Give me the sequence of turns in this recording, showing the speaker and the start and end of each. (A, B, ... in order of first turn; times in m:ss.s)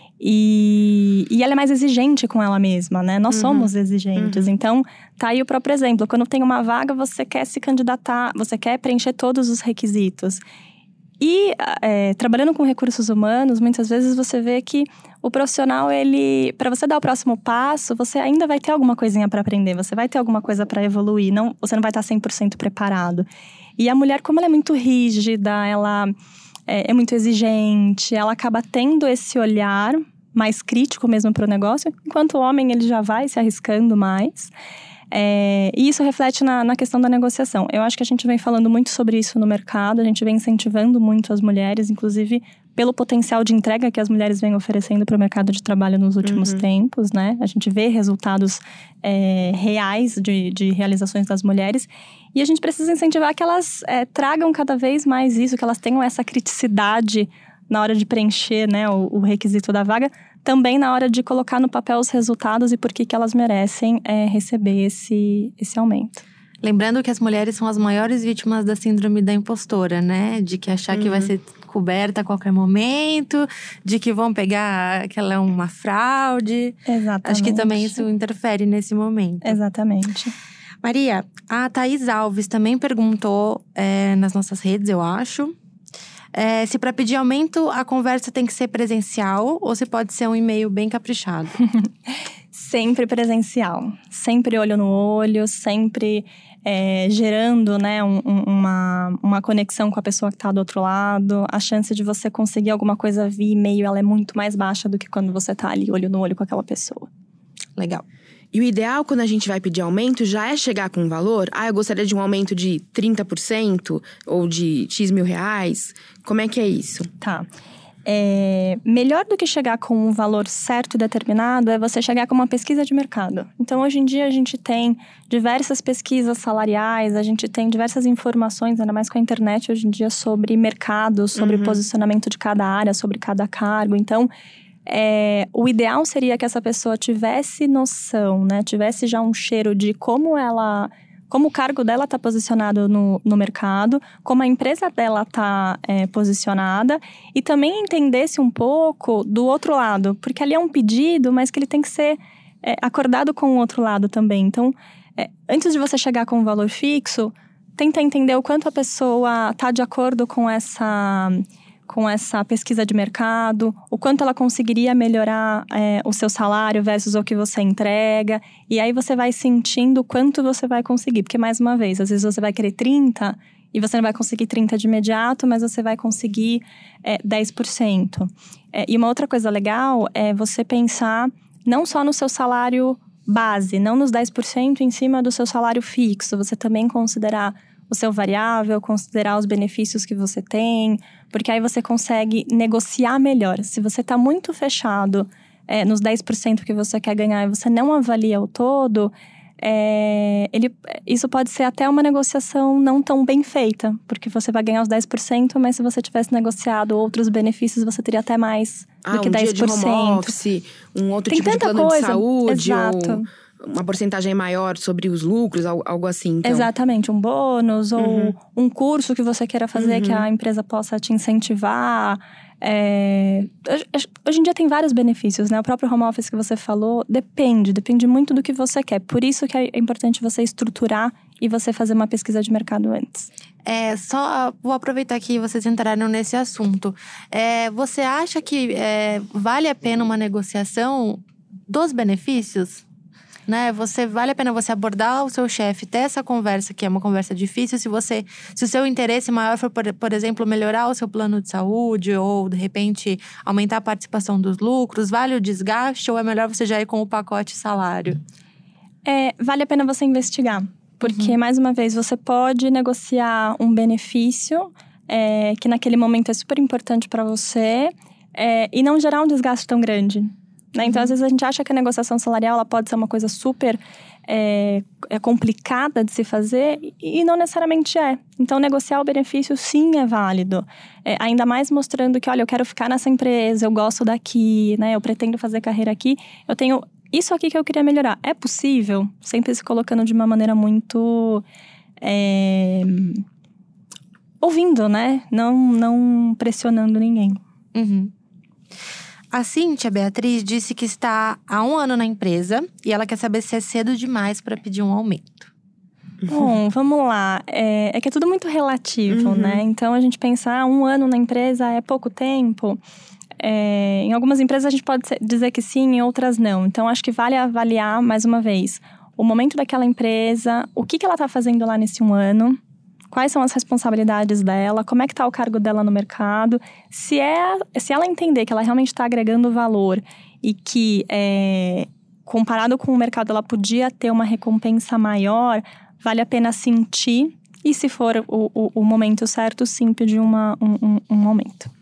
0:00.2-0:10.4 A
0:03.3-0:04.5 B
0:11.2-0:23.3 A
0:23.8-0:26.1 A
0:26.7-0:34.5 A
0:35.1-1:06.2 A
0:46.2-0:46.6 B
1:06.6-1:19.6 C
1:10.9-1:11.3 B
1:16.9-1:18.0 A
1:19.4-1:20.4 A
1:20.8-1:25.6 C
1:26.3-1:31.6 C
1:32.5-1:47.1 A
1:47.8-1:48.0 C
1:48.5-1:57.1 B
1:57.2-1:57.5 A
1:58.1-2:14.3 A
2:11.4-2:11.8 B
2:14.9-3:30.3 A
3:29.0-3:36.7 B
3:31.3-3:33.3 A
3:36.4-3:53.3 A
3:38.0-3:38.4 B
3:39.8-3:40.3 B
3:53.6-4:02.8 C
4:03.5-4:18.2 C
4:19.0-4:51.4 A
4:21.0-4:21.3 C
4:52.0-4:53.2 A
4:54.4-4:57.4 A
4:57.7-4:58.1 C
4:59.3-5:05.5 C
5:06.2-5:06.5 B
5:06.3-5:12.8 A
5:09.1-5:09.6 B
5:13.4-5:22.6 A
5:23.1-5:41.7 A